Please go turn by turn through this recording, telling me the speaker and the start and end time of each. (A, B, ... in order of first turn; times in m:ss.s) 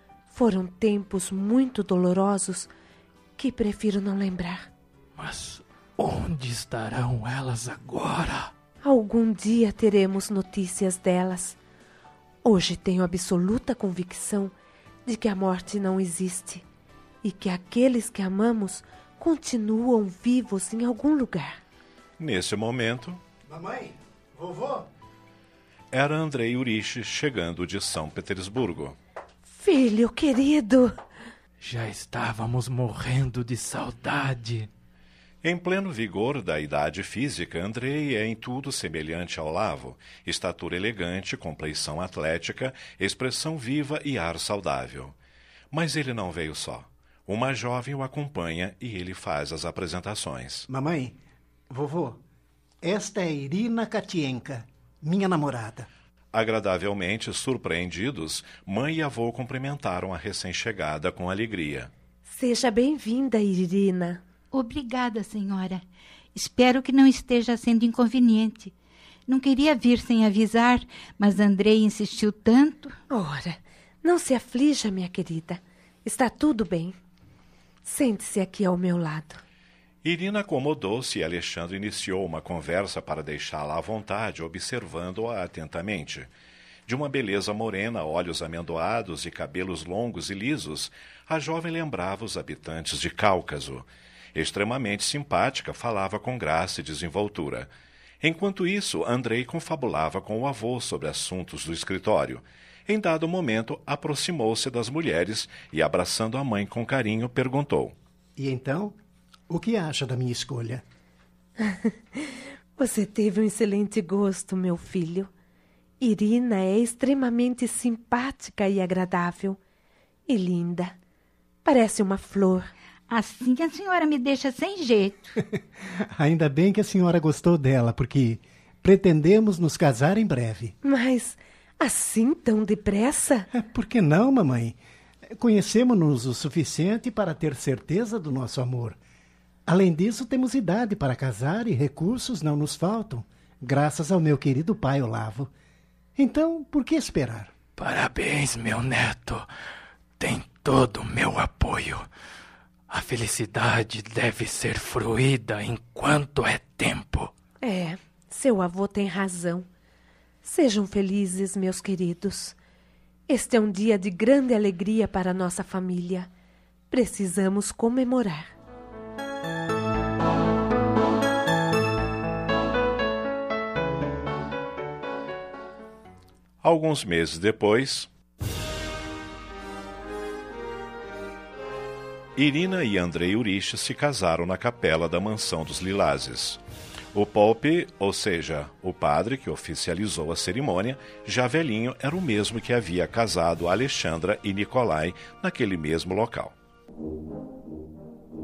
0:00.3-0:02.7 A
0:03.4-0:04.7 A
0:05.2-0:08.5 B
0:08.8-0:11.6 A
0:12.4-0:14.5 A
0:15.1-0:16.6 A
0:17.2-0:21.6 A
0:22.2-0:23.2 C
0:23.5-0:24.9 D
0:25.9-0:29.0 C
0:29.5-0:31.0 A
0:31.6-0:34.7 B
0:35.4-0:45.2 C
0:45.7-0:50.7 C
0:50.7-0:51.2 D
0:51.7-0:52.2 D
0:52.8-0:55.9 D
0:56.3-1:01.9 C
1:02.3-1:04.2 A
1:04.5-1:05.8 E
1:06.4-1:08.7 E
1:09.3-1:13.0 E
1:13.1-1:17.0 A
1:17.8-1:19.4 A
1:20.0-1:26.3 C
1:26.9-1:48.0 C
1:48.4-1:49.0 D
1:49.5-1:50.8 D
1:51.6-1:51.9 A
1:52.8-1:55.3 A
1:56.0-1:59.6 A
2:00.3-2:01.0 A
2:01.6-2:02.7 A
2:03.1-2:05.4 E
2:06.1-2:10.7 D
2:10.8-2:13.5 A
2:13.5-2:19.0 D
2:19.7-2:25.5 D
2:26.2-2:27.5 D
2:27.8-2:29.5 B
2:30.2-2:32.1 B
2:32.9-2:37.3 B
2:37.6-2:39.7 A
2:40.4-2:42.6 A
2:43.3-2:46.3 A
2:46.9-2:48.5 A
2:56.6-2:58.1 C
3:02.4-3:06.6 C
3:07.1-3:16.5 C